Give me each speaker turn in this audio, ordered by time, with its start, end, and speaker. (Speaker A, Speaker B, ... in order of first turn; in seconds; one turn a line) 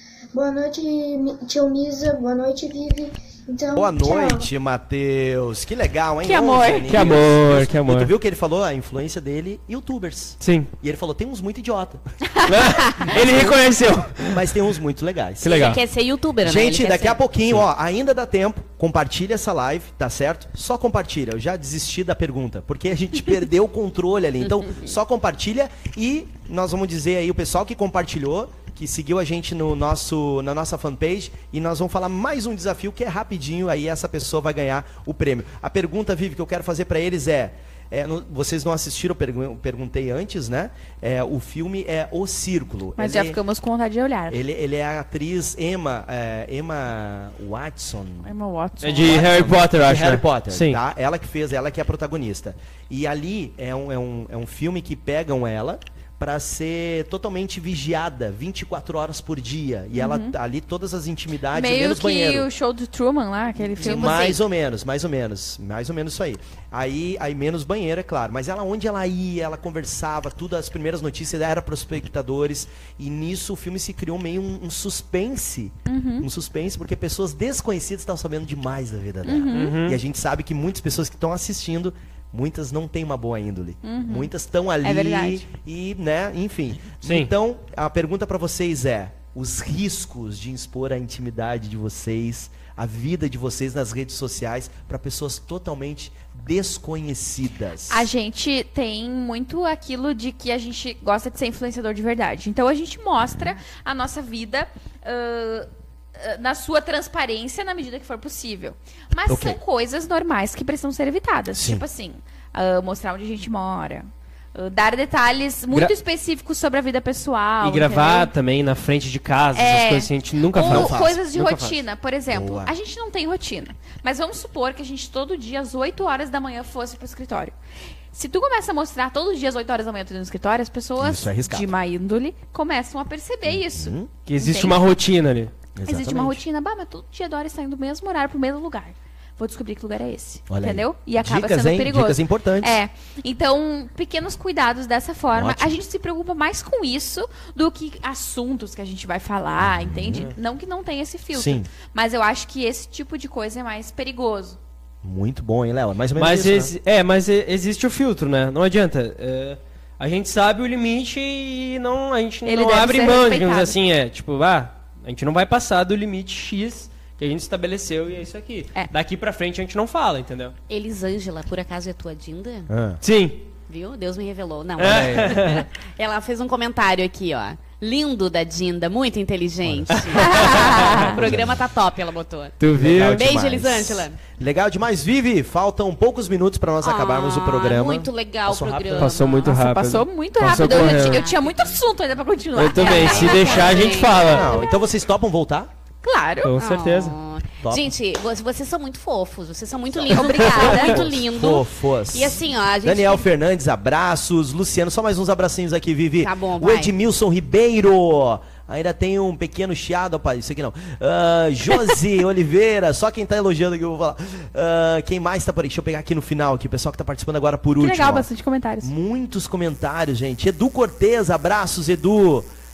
Speaker A: 0.3-4.5
Speaker B: 3.7-12.0
Speaker C: 6.2-7.1
Speaker D: 6.9-8.1
Speaker D: 10.4-10.7
Speaker C: 12.4-13.1
Speaker D: 12.5-14.4
Speaker B: 14.2-15.8
Speaker D: 15.4-15.8
Speaker E: 15.4-17.2
Speaker B: 16.4-43.4
Speaker C: 43.0-44.4
Speaker B: 44.3-48.3
Speaker C: 48.2-49.3
Speaker D: 48.8-50.8
Speaker B: 49.0-62.5
Speaker C: 59.9-60.4
Speaker C: 61.5-64.4
Speaker E: 63.7-64.3
Speaker B: 63.8-98.1
Speaker C: 75.9-76.3
Speaker C: 79.2-79.8
Speaker D: 79.5-80.0
Speaker C: 83.8-85.5
Speaker D: 87.0-87.3
Speaker C: 97.9-118.3
Speaker B: 109.3-109.6
Speaker B: 111.5-111.8
Speaker D: 117.6-121.8
Speaker C: 119.5-127.5
Speaker B: 120.6-121.2
Speaker B: 122.3-122.7
Speaker C: 128.1-134.8
Speaker B: 131.0-131.7
Speaker B: 133.4-134.1
Speaker D: 134.3-135.5
Speaker B: 135.8-136.4
Speaker C: 135.8-154.6
Speaker B: 140.5-142.8
Speaker B: 145.3-145.7
Speaker B: 149.6-150.3
Speaker B: 151.3-151.7
Speaker B: 155.0-156.7
Speaker D: 156.2-170.5
Speaker C: 162.4-163.8
Speaker E: 170.7-172.7
Speaker B: 172.7-173.0
Speaker D: 173.0-173.4
Speaker E: 173.7-184.2
Speaker D: 174.8-175.7
Speaker B: 179.6-181.5
Speaker D: 179.9-181.1
Speaker C: 180.2-181.2
Speaker D: 182.6-183.2
Speaker B: 182.8-189.2
Speaker E: 186.8-189.5
Speaker D: 189.0-191.2
Speaker C: 189.4-194.2
Speaker E: 190.5-191.7
Speaker D: 192.5-194.5
Speaker E: 192.7-194.8
Speaker B: 194.2-195.7
Speaker C: 196.0-196.5
Speaker D: 196.4-197.2
Speaker E: 196.6-203.2
Speaker B: 197.6-197.9
Speaker B: 199.9-218.3
Speaker C: 200.1-201.0
Speaker D: 200.4-200.9
Speaker E: 206.2-206.9
Speaker C: 217.8-218.9
Speaker B: 218.8-222.5